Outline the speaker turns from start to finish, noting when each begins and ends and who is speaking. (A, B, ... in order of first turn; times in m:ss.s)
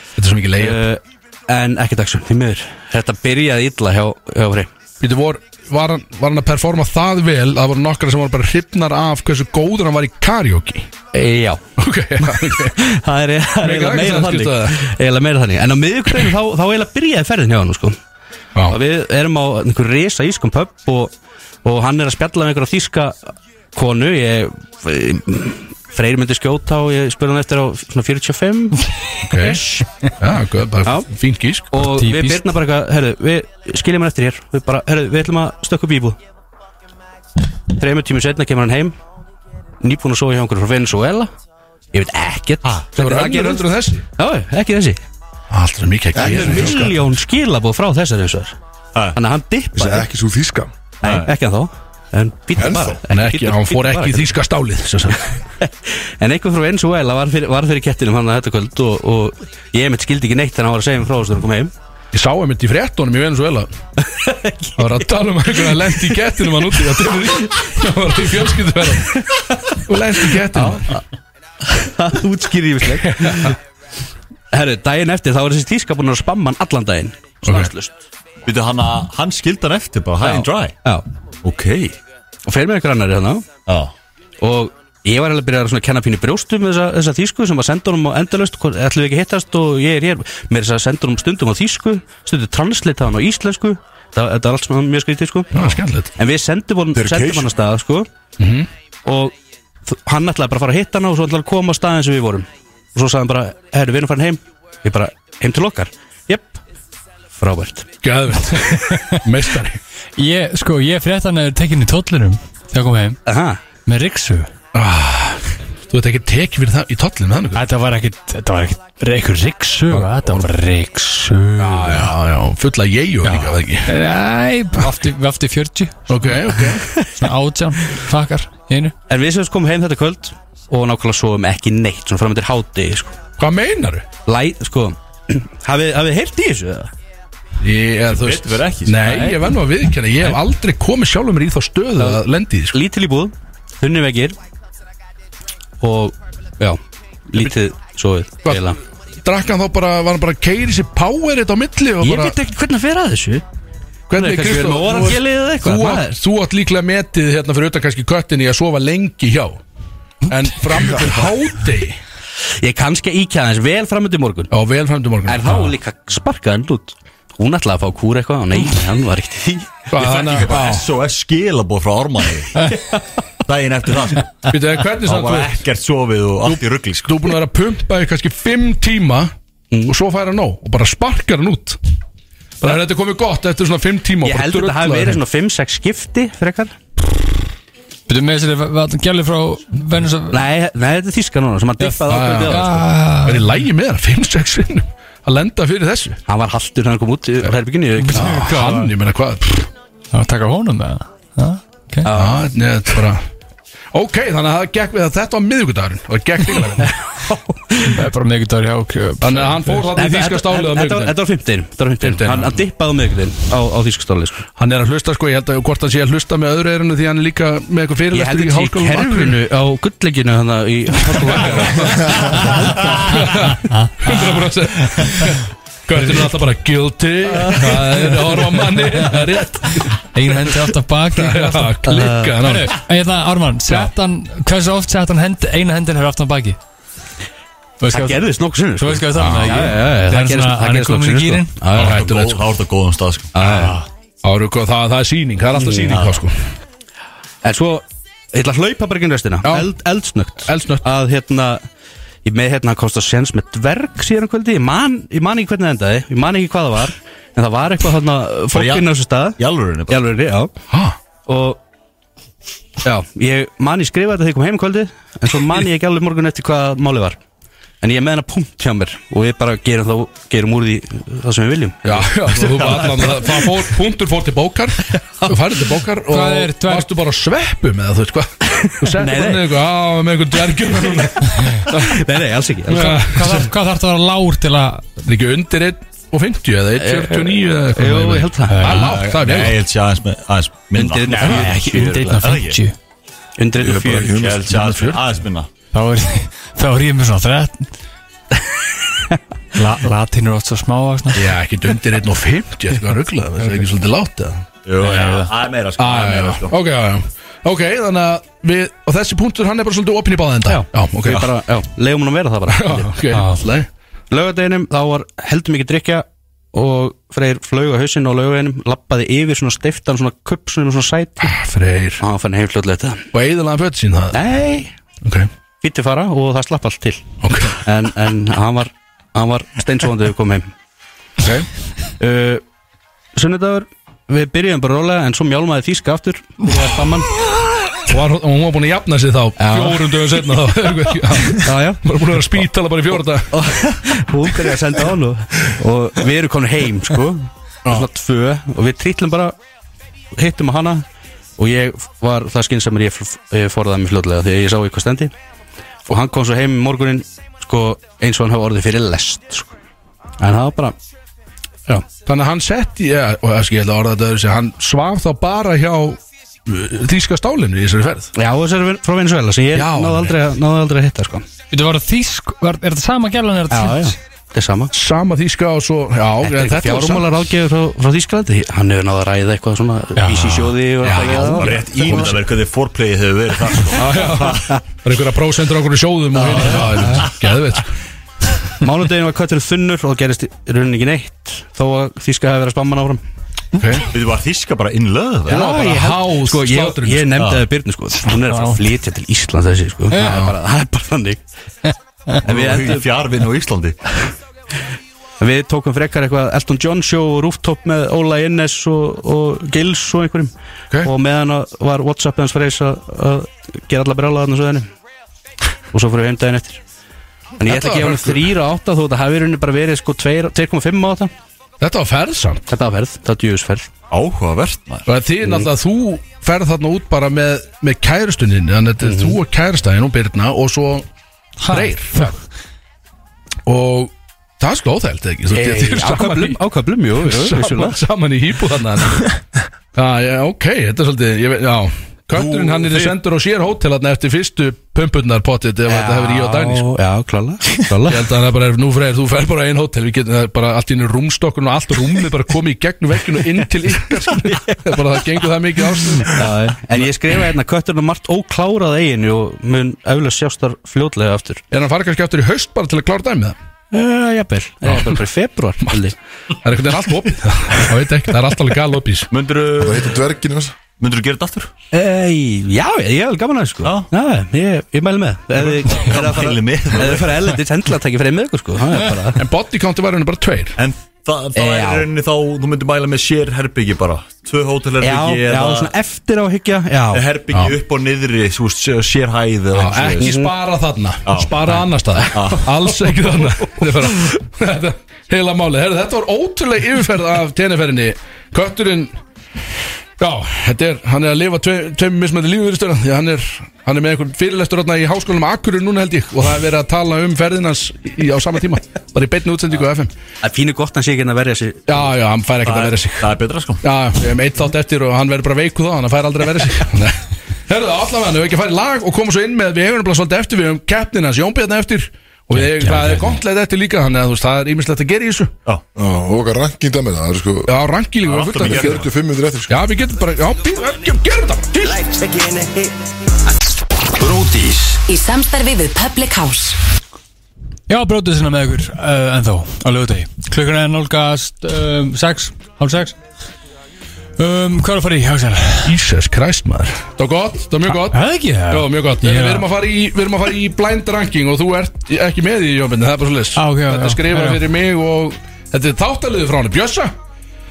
0:00.2-0:00.8 A
0:00.6-0:04.7 B
0:05.0-0:10.9 A
0:11.1-0:11.6 B
0:11.8-0:12.9 A
0:12.3-0:18.0 B
0:13.6-0:14.8 A
0:18.7-0:21.1 B
0:21.6-0:23.2 B
0:23.8-0:28.9 B
0:29.2-0:31.7 A
0:31.7-0:36.2 B
0:31.8-0:32.5 C
0:37.7-0:39.0 B
0:39.8-0:41.3 B
0:41.9-0:45.0 B
0:43.0-0:44.0 A
0:45.5-0:47.0 A
0:46.1-0:46.9 D
0:46.2-0:48.5 B
0:49.2-0:50.1 B
0:49.8-0:50.7 D
0:51.0-0:51.3 E
0:51.0-0:54.3 B
0:52.6-0:53.0 D
0:53.1-0:55.3 A
0:55.6-1:01.7 B
1:02.1-1:03.7 A
1:04.0-1:05.0 B
1:04.8-1:09.2 A
1:05.6-1:06.2 B
1:09.1-1:09.8 B
1:09.8-1:11.0 A
1:10.4-1:11.0 B
1:11.7-1:13.6 B
1:13.0-1:13.6 A
1:14.5-1:18.0 B
1:17.4-1:17.7 A
1:18.4-1:20.8 E
1:20.2-1:21.0 B
1:21.4-1:22.0 E
1:22.5-1:23.5 B
1:23.7-1:23.9 E
1:24.4-1:38.1 B
1:35.5-1:36.1 A
1:36.9-1:37.5 D
1:38.4-1:38.7 A
1:39.1-1:39.3 B
1:39.9-1:46.6 B
1:47.4-1:47.9 B
1:48.0-1:49.8 A
1:48.7-1:49.2 C
1:50.2-1:53.2 C
1:53.3-1:53.6 B
1:53.9-1:54.5 C
1:54.7-1:57.6 A
1:57.6-2:02.1 C
1:59.9-2:00.5 A
2:01.6-2:03.9 A
2:03.2-2:06.3 C
2:06.1-2:06.9 A
2:07.2-2:08.9 C
2:09.1-2:13.2 B
2:13.4-2:14.1 A
2:14.2-2:16.9 B
2:17.6-2:22.8 A
2:18.1-2:19.1 E
2:19.0-2:19.4 B
2:22.0-2:24.4 B
2:25.8-2:28.8 B
2:28.5-2:28.7 A
2:29.2-2:32.4 A
2:32.0-2:33.4 B
2:34.1-2:39.6 A
2:34.2-2:36.2 B
2:40.3-2:42.0 A
2:42.6-2:44.5 B
2:44.5-2:45.7 A
2:45.3-2:49.9 B
2:49.9-2:50.9 A
2:49.9-2:52.7 E
2:52.7-2:53.0 B
2:53.5-2:57.3 E
2:54.5-2:55.6 A
2:56.5-2:59.3 A
2:59.8-3:01.8 A
3:02.6-3:05.2 A
3:04.2-3:06.7 B
3:08.1-3:10.4 C
3:10.3-3:12.9 B
3:12.0-3:16.2 A
3:12.4-3:13.6 C
3:16.3-3:18.5 B
3:18.0-3:18.9 C
3:18.1-3:19.7 A
3:20.1-3:22.1 C
3:22.0-3:22.4 B
3:22.1-3:23.2 A
3:23.9-3:27.0 A
3:26.8-3:28.0 B
3:27.8-3:29.9 C
3:29.2-3:31.2 A
3:30.0-3:34.4 B
3:32.0-3:32.6 A
3:34.6-3:39.4 A
3:38.1-3:42.9 B
3:41.1-3:50.6 A
3:47.5-3:49.2 C
3:50.0-3:51.9 C
3:51.2-3:52.8 A
3:51.9-3:52.4 B
3:52.4-3:56.6 C
3:57.8-3:58.2 C
3:57.9-4:02.1 B
3:58.8-4:01.5 C
3:59.2-3:59.7 A
4:01.7-4:02.4 A
4:01.7-4:03.3 E
4:03.3-4:03.8 B
4:03.4-4:03.8 C
4:04.2-4:06.4 A
4:05.6-4:06.0 B
4:05.9-4:06.2 E
4:07.4-4:11.6 B
4:09.4-4:09.7 A
4:10.4-4:10.8 A
4:12.2-4:20.5 B
4:18.5-4:20.0 E
4:20.7-4:21.0 A
4:21.3-4:21.6 B
4:22.8-4:27.2 B
4:27.8-4:33.5 B
4:31.9-4:42.0 A
4:32.4-4:33.0 E
4:34.9-4:35.3 B
4:36.1-4:36.9 C
4:38.5-4:39.6 B
4:41.7-4:43.1 B
4:42.7-4:43.5 A
4:42.7-4:44.9 C
4:45.0-4:49.6 A
4:46.8-4:48.7 B
4:48.5-4:49.0 C
4:48.7-4:51.6 E
4:50.7-4:52.3 B
4:51.1-4:52.7 C
4:52.1-4:52.6 E
4:53.4-4:54.2 B
4:53.6-4:54.7 D
4:54.2-4:55.5 E
4:54.5-4:55.0 A
4:55.7-4:57.7 C
4:59.6-5:01.3 C
5:01.1-5:11.3 A
5:04.6-5:06.5 E
5:10.5-5:13.0 B
5:12.5-5:13.7 A
5:13.1-5:13.4 C
5:14.1-5:21.4 B
5:21.2-5:22.0 A
5:22.0-5:23.1 B
5:23.1-5:24.2 A
5:24.1-5:24.7 B
5:25.0-5:25.3 A
5:25.6-5:27.0 B
5:27.2-5:27.6 A
5:27.6-5:30.5 B
5:31.2-5:31.5 A
5:32.0-5:32.4 B
5:33.2-5:37.2 B
5:37.9-5:43.4 A
5:39.4-5:39.9 B
5:41.3-5:42.0 B
5:43.3-5:49.4 B
5:50.2-5:50.8 B
5:51.4-5:55.1 B
5:55.9-5:59.5 B
6:00.2-6:00.8 B
6:02.0-6:08.1 A
6:08.2-6:11.3 B
6:09.5-6:10.2 A
6:11.5-6:14.0 C
6:13.5-6:14.7 B
6:14.7-6:17.1 A
6:16.2-6:22.2 B
6:20.0-6:20.6 C
6:20.8-6:22.2 A
6:20.9-6:24.5 E
6:23.7-6:27.7 A
6:26.2-6:27.2 E
6:26.4-6:27.0 B
6:28.6-6:33.0 B
6:33.6-6:33.9 A
6:33.9-6:35.5 E
6:35.3-6:41.2 B
6:35.3-6:37.2 A
6:37.2-6:37.5 E
6:38.0-6:38.6 C
6:39.9-6:40.3 C
6:40.0-6:40.3 A
6:42.2-6:42.9 B
6:42.2-6:43.8 E
6:45.2-6:50.3 B
6:50.8-6:54.7 B
6:55.7-6:56.6 B
6:57.4-7:01.1 B
6:57.4-6:58.3 A
7:01.6-7:02.5 A
7:02.5-7:03.7 B
7:03.9-7:04.8 E
7:04.9-7:10.9 A
7:05.2-7:05.5 B
7:08.8-7:09.2 B
7:11.4-7:12.1 C
7:11.5-7:12.2 A
7:13.5-7:16.4 A
7:15.3-7:17.8 B
7:17.0-7:19.2 A
7:19.7-7:26.7 A
7:22.2-7:22.9 E
7:25.7-7:28.1 B
7:27.8-7:36.3 A
7:34.3-7:34.6 B
7:36.0-7:41.4 B
7:41.5-7:43.4 A
7:43.7-7:46.0 B
7:44.7-7:45.0 A
7:46.4-7:49.1 A
7:49.1-7:50.0 E
7:49.6-7:50.6 D
7:50.8-7:51.5 E
7:51.7-7:59.2 B
7:53.6-7:53.9 E
7:55.4-7:57.3 E
7:59.2-8:00.6 A
8:00.6-8:05.7 E
8:01.4-8:01.9 B
8:04.8-8:07.0 B
8:06.9-8:10.2 E
8:09.5-8:19.0 A
8:10.0-8:10.3 B
8:11.1-8:11.5 E
8:12.1-8:12.9 E
8:20.0-8:29.9 A
8:30.2-8:31.8 B
8:31.7-8:45.3 A
8:32.4-8:33.6 E
8:42.3-8:43.2 C
8:45.8-8:47.5 D
8:47.5-8:48.9 A
8:48.0-8:48.9 E
8:48.4-8:49.6 D
8:49.5-8:51.9 A
8:54.0-8:56.6 F
8:57.7-9:03.0 C
9:04.2-9:05.8 C
9:05.6-9:16.9 A
9:07.7-9:09.5 C
9:13.4-9:14.4 C